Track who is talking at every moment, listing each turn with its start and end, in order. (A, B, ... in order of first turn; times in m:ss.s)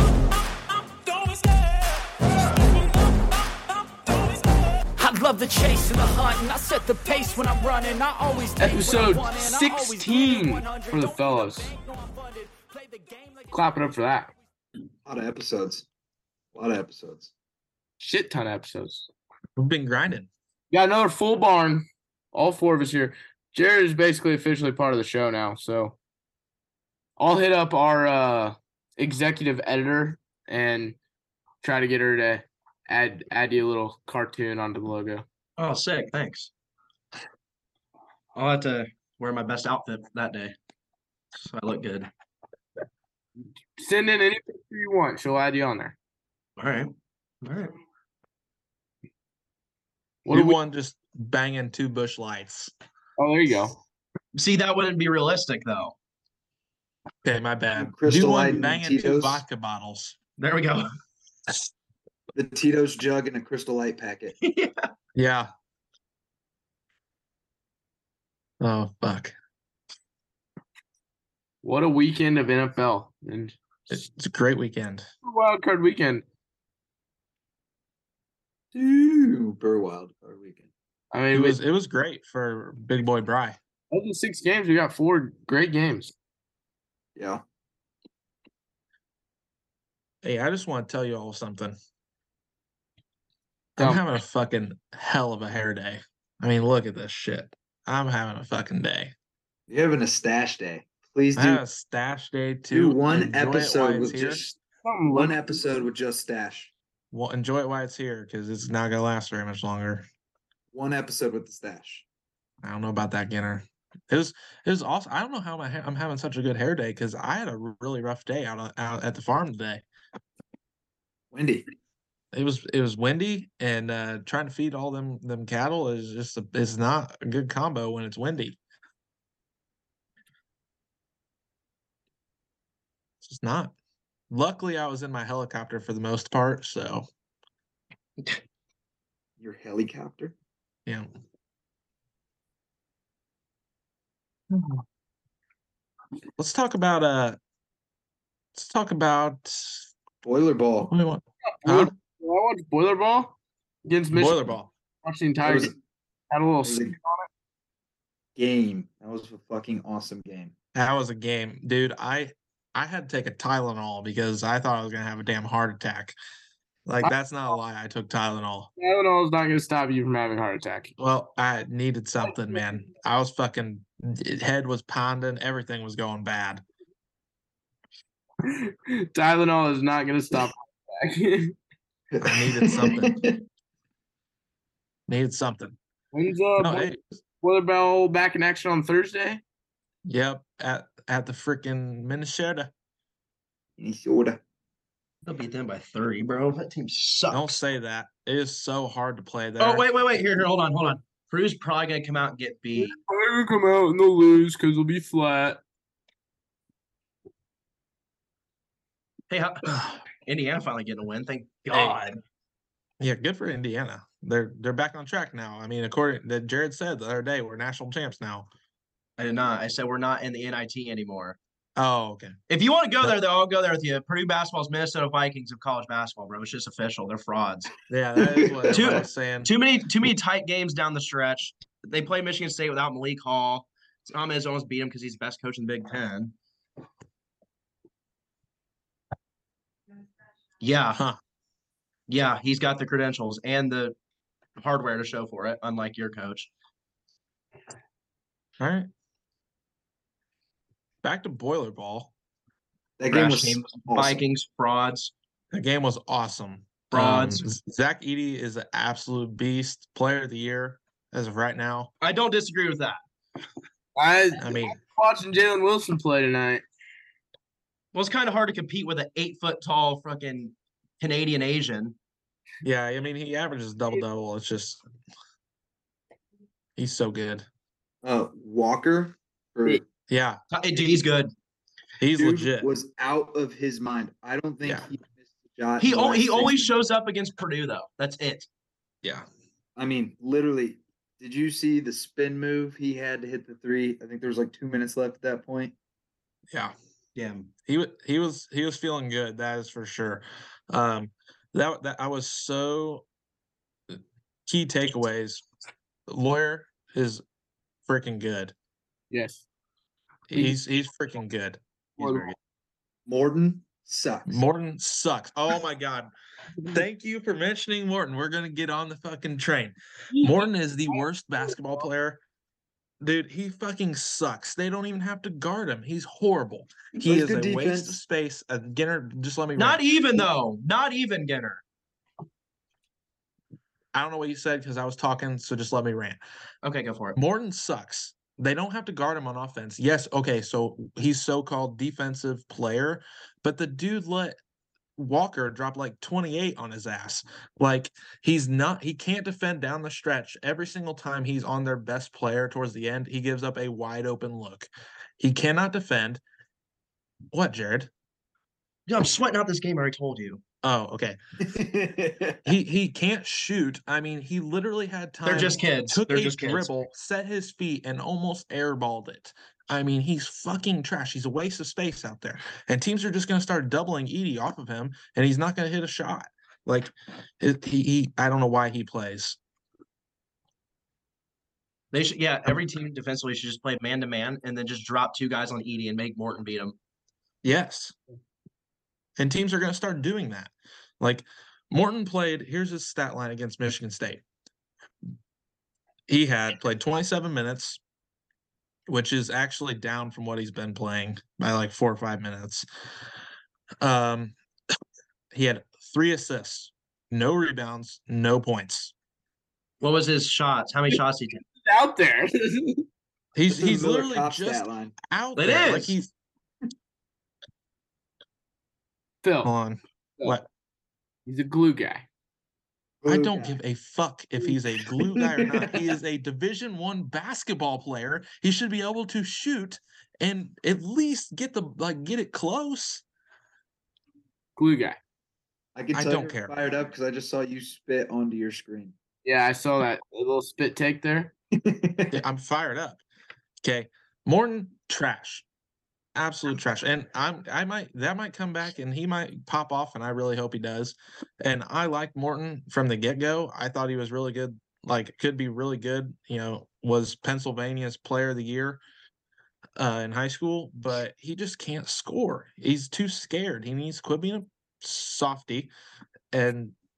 0:00.9-0:02.7 A
0:03.9-0:13.6 A
0:08.6-0:11.7 B
0:13.5-0:14.3 B
0:15.0-0:15.8 C
0:16.5-0:17.3 C
0:18.0-0:19.1 B
0:19.6-0:20.3 D
0:20.7-0:26.0 B
0:27.2-0:31.0 B
0:31.6-0:35.2 B
0:35.6-0:36.5 E
0:38.3-0:40.5 E
0:41.4-0:42.1 E
0:43.8-0:46.0 B
0:46.6-0:47.7 E
0:50.2-0:50.6 B
0:50.3-0:52.7 D
0:53.2-0:53.8 B
0:54.3-0:55.9 E
0:57.2-1:00.2 D
0:57.7-0:59.4 C
1:00.4-1:00.9 E
1:02.3-1:04.3 C
1:04.4-1:04.9 E
1:05.1-1:05.5 D
1:08.6-1:09.3 D
1:11.6-1:13.6 B
1:13.9-1:15.0 D
1:15.2-1:16.2 B
1:18.7-1:20.7 C
1:21.1-1:21.6 B
1:21.3-1:23.6 D
1:23.9-1:26.1 B
1:27.2-1:27.4 C
1:30.2-1:31.8 D
1:33.8-1:39.1 D
1:33.8-1:34.1 B
1:39.7-1:41.6 C
1:41.3-1:44.4 D
1:42.7-1:44.6 C
1:44.8-1:45.6 B
1:45.1-1:46.7 C
1:47.1-1:50.0 D
1:50.7-1:52.0 C
1:52.6-1:59.8 D
2:01.3-2:01.7 C
2:02.3-2:08.6 D
2:13.2-2:13.7 D
2:14.3-2:17.1 D
2:19.4-2:20.3 C
2:24.5-2:24.8 D
2:26.4-2:27.4 D
2:28.5-2:29.9 D
2:30.2-2:30.9 C
2:30.9-2:31.9 D
2:31.4-2:34.5 B
2:34.1-2:34.7 D
2:35.0-2:35.7 B
2:35.4-2:35.7 C
2:36.3-2:37.3 B
2:36.6-2:37.0 C
2:38.4-2:40.5 C
2:40.7-2:46.2 D
2:46.8-2:48.7 D
2:48.8-2:50.9 B
2:51.0-2:56.6 D
2:58.4-3:01.5 B
3:02.1-3:03.4 C
3:02.2-3:03.2 D
3:05.1-3:05.8 D
3:06.1-3:09.4 B
3:06.6-3:07.2 D
3:10.0-3:12.7 D
3:13.8-3:14.4 C
3:15.2-3:17.5 E
3:17.3-3:19.8 D
3:19.6-3:22.9 E
3:22.8-3:25.6 B
3:29.3-3:29.7 E
3:29.7-3:30.0 D
3:30.2-3:32.2 E
3:31.7-3:32.0 D
3:33.0-3:38.5 D
3:39.2-3:41.4 E
3:41.8-3:42.4 D
3:42.5-3:47.7 E
3:47.9-3:49.5 D
3:48.7-3:56.3 E
4:00.6-4:01.0 E
4:00.9-4:01.2 D
4:02.1-4:04.0 E
4:04.6-4:06.5 E
4:08.6-4:08.9 D
4:11.0-4:12.1 D
4:13.0-4:14.2 C
4:13.1-4:15.1 E
4:15.5-4:21.9 D
4:16.9-4:17.4 E
4:22.0-4:23.0 E
4:24.0-4:26.6 B
4:24.4-4:24.8 D
4:27.9-4:31.9 E
4:32.6-4:34.8 D
4:36.8-4:37.4 D
4:38.0-4:39.8 C
4:40.1-4:40.4 D
4:40.5-4:41.3 E
4:42.0-4:42.7 D
4:42.2-4:46.7 C
4:45.8-4:48.5 E
4:49.8-4:55.7 C
4:57.1-4:57.5 E
4:57.6-5:03.0 D
5:03.9-5:05.4 D
5:06.1-5:07.2 D
5:07.9-5:08.5 D
5:09.1-5:09.4 B
5:10.3-5:12.3 D
5:12.0-5:12.3 B
5:13.0-5:14.4 C
5:14.3-5:16.1 D
5:16.7-5:22.2 D
5:20.1-5:21.0 B
5:23.0-5:29.8 D
5:27.0-5:28.0 C
5:29.6-5:31.6 E
5:33.9-5:36.2 D
5:36.6-5:37.2 E
5:37.2-5:44.4 D
5:45.0-5:56.2 D
5:57.3-5:57.9 D
5:58.9-6:00.4 E
6:00.6-6:01.2 D
6:01.4-6:02.4 C
6:02.4-6:19.4 D
6:05.2-6:06.7 E
6:21.9-6:26.8 E
6:27.4-6:27.9 D
6:29.2-6:34.2 D
6:36.1-6:37.8 D
6:38.9-6:42.6 D
6:43.8-6:44.3 D
6:45.3-6:48.9 D
6:49.8-6:51.4 E
6:51.6-6:52.8 B
6:53.3-6:56.1 D
6:53.5-6:54.9 C
6:55.4-6:56.0 E
6:59.2-6:59.5 B
6:59.4-7:00.5 D
7:01.2-7:02.0 B
7:03.0-7:03.6 C
7:03.1-7:13.0 D
7:05.0-7:05.8 C
7:14.6-7:15.0 B
7:15.7-7:18.9 C
7:15.9-7:16.5 D
7:19.2-7:21.3 B
7:21.5-7:22.2 C
7:22.1-7:23.0 D
7:23.6-7:25.4 D
7:26.1-7:38.8 D
7:39.8-7:45.7 D
7:46.3-7:46.7 D